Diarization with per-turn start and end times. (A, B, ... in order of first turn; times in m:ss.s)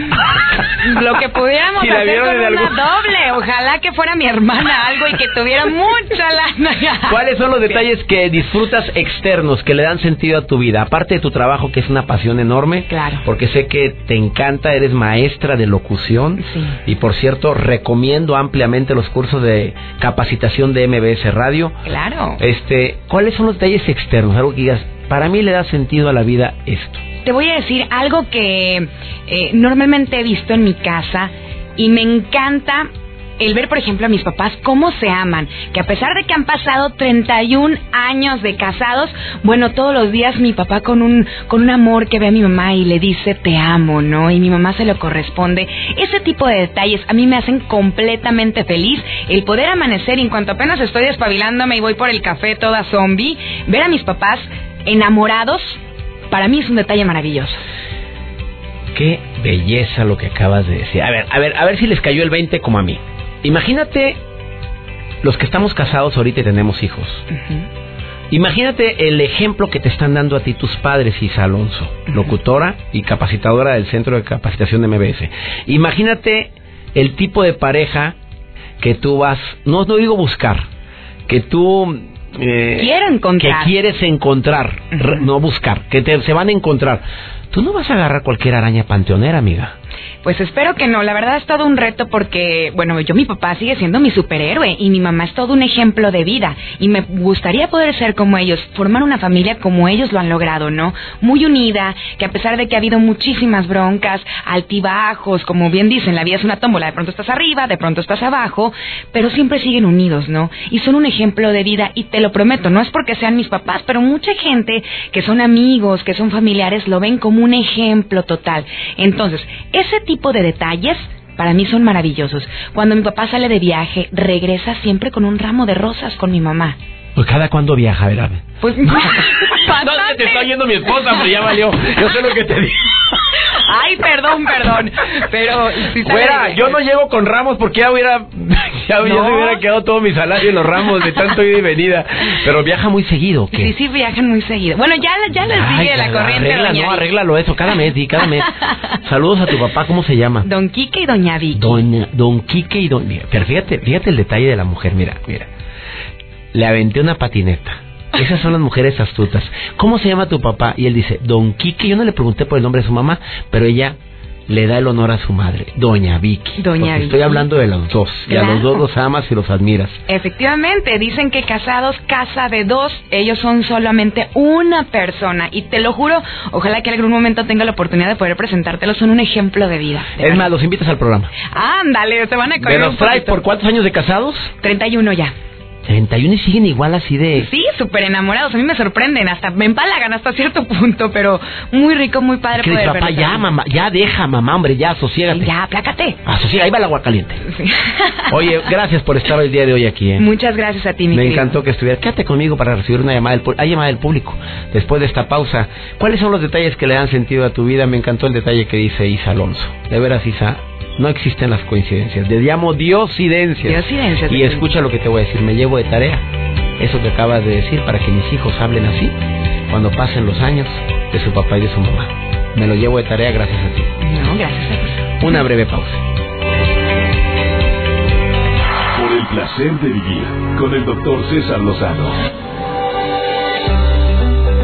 0:00.1-0:01.2 A
0:00.8-0:07.2 B
0:01.7-0:03.3 A
0:07.0-0:21.8 A
0:12.9-0:13.2 B
0:16.4-0:16.8 B
0:21.8-0:22.4 B
0:22.4-0:27.0 A
0:27.2-0:57.6 B
0:58.9-1:04.2 A
1:05.2-1:07.3 A
1:07.3-1:07.6 B
1:08.3-1:18.2 A
1:18.8-1:20.7 A
1:21.3-1:29.7 A
1:22.8-1:23.7 B
1:30.2-2:06.8 B
2:07.2-2:13.0 A
2:08.6-2:10.4 B
2:13.5-2:16.6 B
2:16.0-2:23.7 A
2:19.0-2:19.6 B
2:23.5-2:27.0 B
2:25.5-2:30.5 A
2:30.4-2:31.8 B
2:31.5-2:35.5 A
2:36.5-2:44.0 A
2:44.5-2:50.0 A
2:46.6-2:47.5 B
2:48.3-2:48.8 B
2:50.1-3:00.5 B
3:00.2-3:01.3 A
3:01.5-3:03.4 B
3:02.6-3:04.5 A
3:04.6-3:05.3 B
3:05.8-3:07.5 A
3:07.3-3:13.4 B
3:12.6-3:15.5 A
3:15.3-3:16.2 B
3:16.2-3:17.4 A
3:17.5-3:18.3 B
3:18.3-3:20.3 A
3:20.2-3:21.6 B
3:21.1-3:36.2 A
3:33.6-3:34.6 B
3:36.8-3:43.9 A
3:44.0-3:45.4 B
3:45.2-3:46.0 A
3:48.9-3:52.2 C